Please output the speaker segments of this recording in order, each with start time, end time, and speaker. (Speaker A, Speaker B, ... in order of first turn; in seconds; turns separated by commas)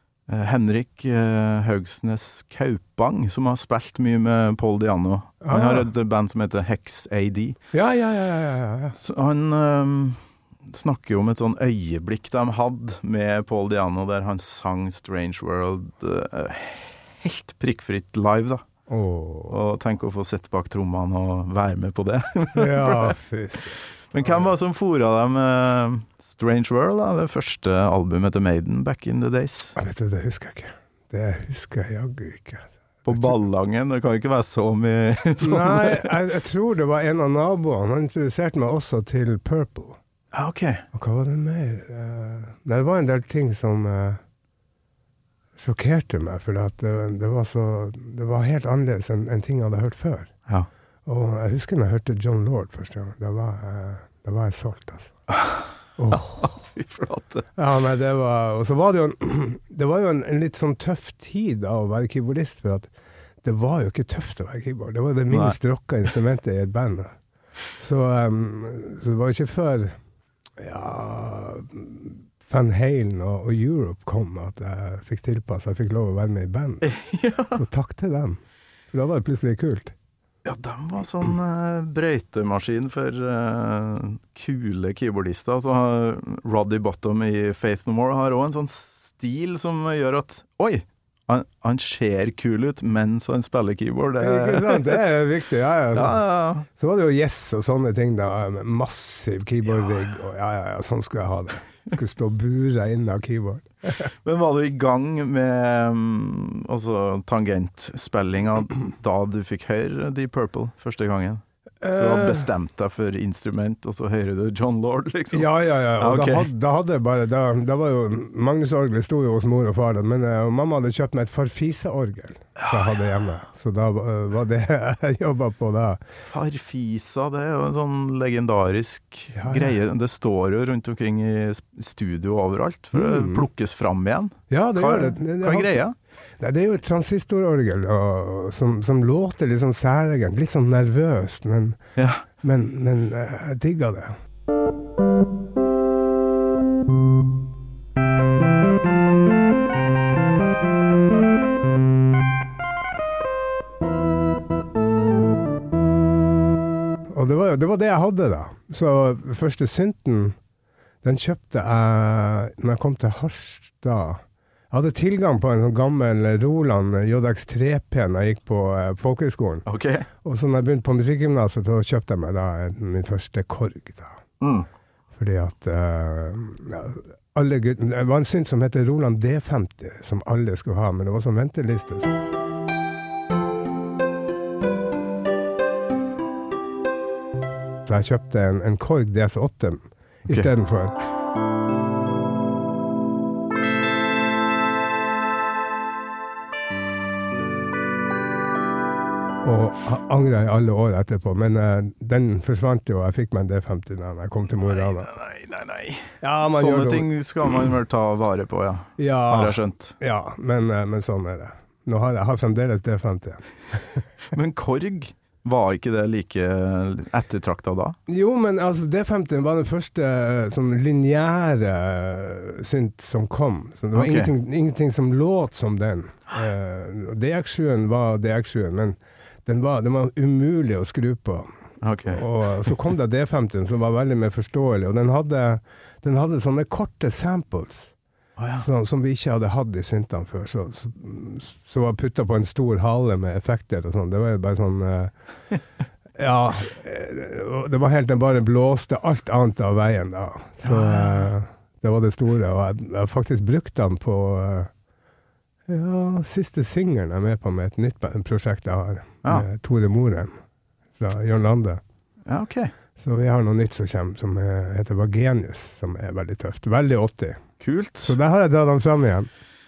Speaker A: 0.3-7.6, Speaker B: 5.4-5.9, Speaker B: 7.7-9.0, Speaker A: 9.0-18.6, Speaker B: 18.9-19.6, Speaker A: 19.5-23.1, Speaker B: 22.5-24.5, Speaker A: 24.1-29.8, Speaker B: 29.8-33.4, Speaker A: 33.0-36.2, Speaker B: 35.4-40.0, Speaker A: 40.3-40.9, Speaker B: 40.9-44.2, Speaker B: 45.6-50.3, Speaker B: 51.0-55.1, Speaker A: 55.3-57.5, Speaker B: 56.0-56.5, Speaker B: 57.5-62.9, Speaker B: 63.4-67.1, Speaker A: 65.3-65.5, Speaker B: 67.7-70.0, Speaker B: 70.6-76.9, Speaker A: 76.8-77.6, Speaker B: 77.5-78.4, Speaker B: 78.9-79.9, Speaker A: 80.4-95.1, Speaker B: 94.2-104.1, Speaker A: 95.9-96.7, Speaker A: 104.2-116.5, Speaker B: 111.8-112.5, Speaker B: 115.3-126.0, Speaker A: 122.6-123.1, Speaker A: 126.2-135.9, Speaker B: 129.3-129.7, Speaker B: 132.9-133.5, Speaker B: 134.5-135.8, Speaker B: 136.4-141.8, Speaker A: 141.9-142.2, Speaker B: 142.4-144.2, Speaker B: 157.1-160.3, Speaker B: 161.0-169.7, Speaker A: 169.7-170.1, Speaker B: 170.2-174.2, Speaker A: 174.4-174.7, Speaker B: 175.2-182.1, Speaker B: 187.8-190.9, Speaker B: 199.4-205.1, Speaker A: 204.6-209.9, Speaker B: 206.2-207.1, Speaker B: 209.0-213.4, Speaker A: 214.3-218.0, Speaker B: 218.1-231.5, Speaker A: 223.9-224.3, Speaker A: 231.8-232.7, Speaker B: 232.0-237.9, Speaker A: 238.4-238.7, Speaker B: 238.6-245.1, Speaker B: 246.2-254.7, Speaker A: 250.6-251.3, Speaker B: 255.7-260.3, Speaker B: 261.0-261.8, Speaker A: 262.2-262.7, Speaker B: 263.0-267.4, Speaker A: 267.6-268.2, Speaker B: 268.0-269.3